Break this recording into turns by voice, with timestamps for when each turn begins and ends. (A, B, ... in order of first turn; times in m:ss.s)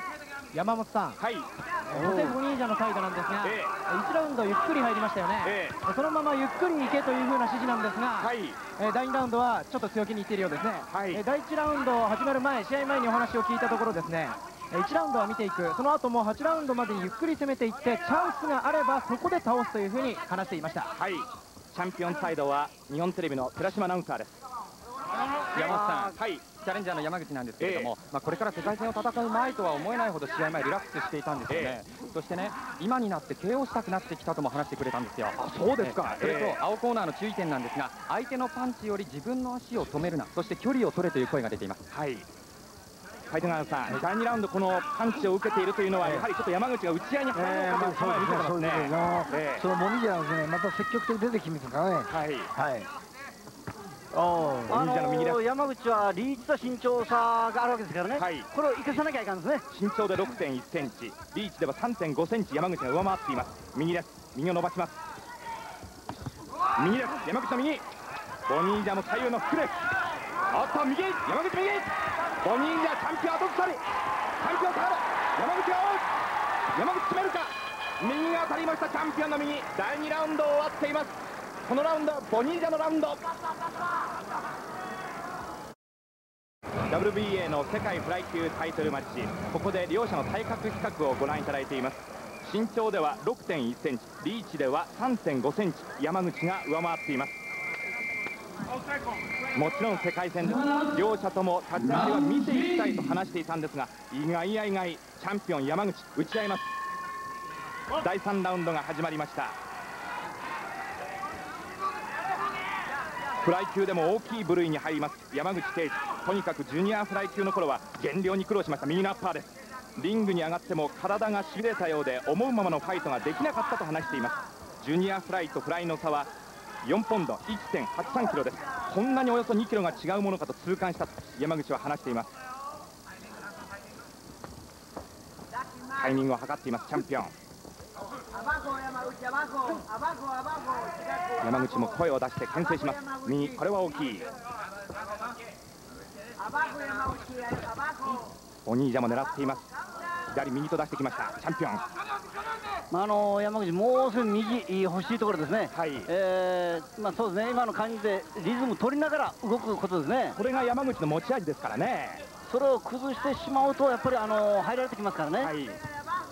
0:00.5-0:01.2 A
0:01.2-0:02.4 B
0:01.9-0:20.9 A
0:03.4-0:03.7 B
0:05.4-0:05.8 B
0:08.2-0:08.6 B
0:10.9-0:11.2 B
0:21.0-0:24.4 B
0:25.5-0:41.8 C
0:25.6-0:26.4 B
0:27.6-0:27.9 B
0:31.5-0:31.8 B
0:35.3-0:36.6 B
0:41.9-0:42.2 B
0:43.3-0:49.6 B
0:46.0-0:46.2 D
0:47.3-0:52.9 D
0:52.1-0:52.5 B
0:54.1-0:54.8 D
0:54.7-0:59.6 E
0:54.7-0:55.4 B
0:58.1-0:58.5 B
0:59.7-1:05.0 B
1:06.8-1:07.8 B
1:08.5-1:09.8 B
1:10.5-1:11.9 B
1:12.4-1:13.8 B
1:14.4-1:16.1 B
1:16.7-1:23.2 B
1:26.9-1:37.4 B
1:39.5-1:46.7 B
1:40.5-1:40.9 A
1:41.9-1:43.0 A
1:48.0-1:49.6 B
1:53.4-2:06.3 B
2:06.8-2:12.3 B
2:16.0-2:17.3 B
2:21.4-2:24.3 B
2:28.6-2:29.7 B
2:30.3-2:31.8 B
2:32.9-2:40.4 E
2:35.7-2:36.1 B
2:40.4-2:42.2 B
2:42.5-2:45.5 E
2:45.4-2:45.8 B